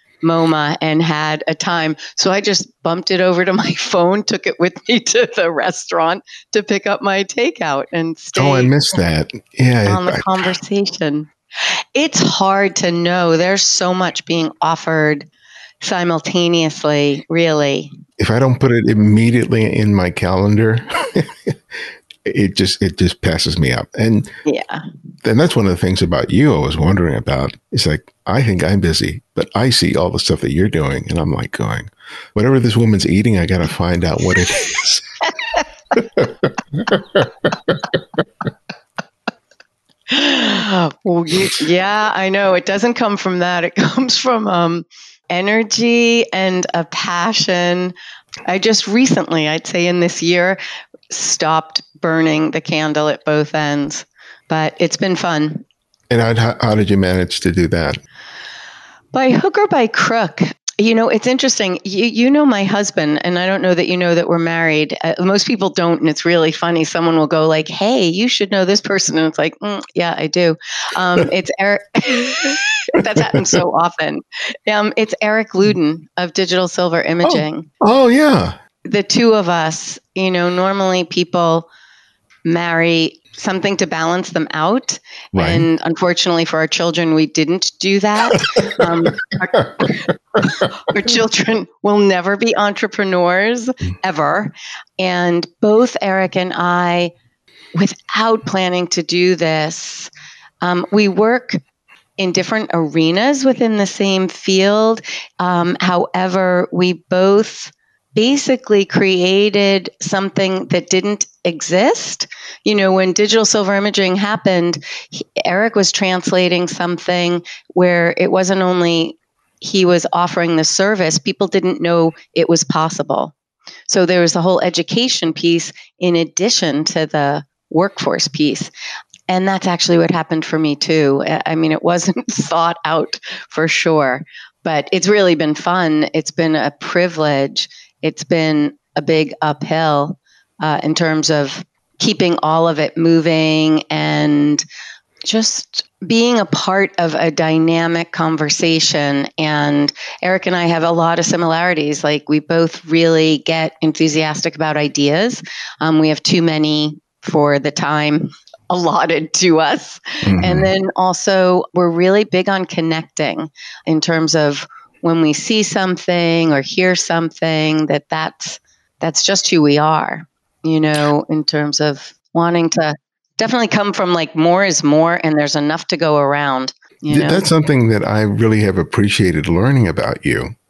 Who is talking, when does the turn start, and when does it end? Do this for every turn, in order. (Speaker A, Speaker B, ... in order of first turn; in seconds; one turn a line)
Speaker A: 0.2-8.7
Speaker B: 8.3-10.5
Speaker A: 9.9-11.3
Speaker A: 11.9-15.3
Speaker A: 15.8-17.9
Speaker B: 18.2-21.6
Speaker B: 22.2-24.3
Speaker A: 24.5-24.8
Speaker B: 25.2-35.2
Speaker A: 35.4-35.7
Speaker B: 35.9-38.2
Speaker A: 40.1-47.9
Speaker A: 48.5-50.6
Speaker A: 51.1-55.6
Speaker B: 56.1-58.0
Speaker A: 59.1-77.7
Speaker B: 73.0-73.6
Speaker B: 77.2-78.6
Speaker A: 78.8-81.7
Speaker A: 82.5-97.1
Speaker B: 85.3-85.7
Speaker B: 88.3-90.7
Speaker A: 97.7-100.1
Speaker A: 100.6-101.6
Speaker A: 102.2-123.3
Speaker A: 123.9-128.7
Speaker A: 129.3-144.7
Speaker A: 145.3-177.5
Speaker B: 160.3-160.7
Speaker B: 177.1-180.5